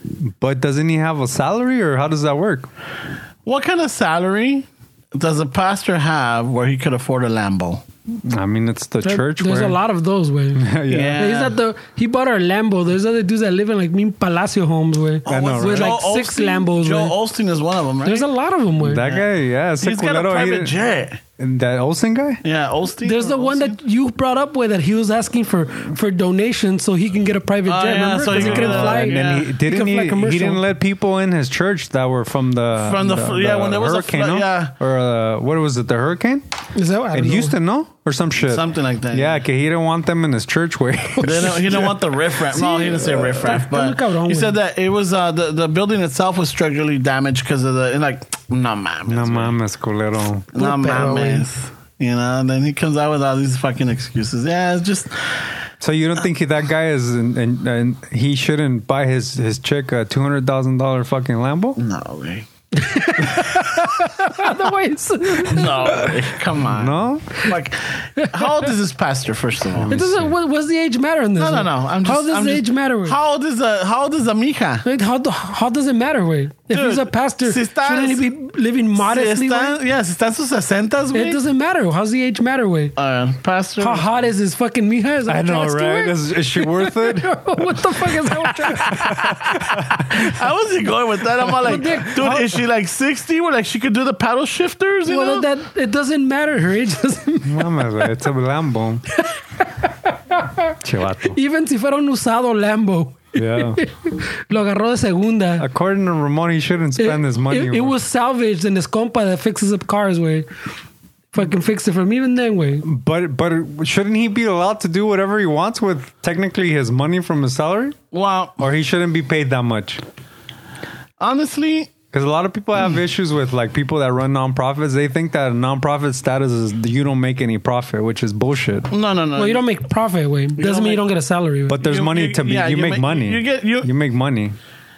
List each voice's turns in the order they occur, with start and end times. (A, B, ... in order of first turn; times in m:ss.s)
0:00.2-0:02.7 A
0:03.4-0:07.8 B
0:08.2-0:09.8 A
0:09.0-0:17.1 C
0:10.5-0:11.2 A
0:10.9-0:11.6 B
0:15.2-0:16.0 A
0:15.3-0:18.3 B
0:18.0-0:19.0 C
0:18.8-0:20.7 A
0:19.8-0:21.2 B
0:21.4-0:22.4 A
0:22.4-0:23.8 B
0:23.0-0:30.6 C
0:27.7-0:29.5 B
0:28.3-0:36.4 A
0:32.8-0:34.7 B
0:36.7-0:37.6 C
0:37.1-0:41.9 A
0:38.4-0:39.4 B
0:41.2-0:41.8 C
0:41.2-0:49.5 B
0:42.5-0:44.5 C
0:49.1-0:50.5 A
0:50.5-0:55.4 B
0:50.5-0:51.4 C
0:55.8-1:01.8 A
1:01.8-1:02.5 B
1:02.7-1:06.0 C
1:05.5-1:10.0 B
1:06.6-1:07.3 A
1:08.3-1:08.6 C
1:09.8-1:10.3 A
1:09.9-1:13.2 C
1:11.4-1:14.8 B
1:14.8-1:19.8 C
1:16.7-1:18.2 B
1:19.0-1:21.4 B
1:21.1-1:23.0 C
1:23.0-1:24.0 B
1:23.8-1:29.3 C
1:25.3-1:27.3 A
1:28.6-1:35.5 B
1:29.0-1:30.4 A
1:31.6-1:32.4 C
1:35.1-1:37.8 C
1:37.4-1:39.0 A
1:39.2-1:40.7 C
1:40.8-1:41.4 A
1:41.3-1:45.6 C
1:43.3-1:43.8 A
1:45.6-1:47.9 A
1:47.0-1:50.5 C
1:51.3-1:52.8 C
1:52.8-1:58.0 A
1:58.1-1:58.6 B
1:58.6-2:00.0 A
2:01.2-2:01.9 B
2:02.1-2:08.9 A
2:08.9-2:09.6 B
2:09.4-2:11.8 C
2:10.6-2:11.0 B
2:11.7-2:14.6 A
2:11.8-2:13.9 B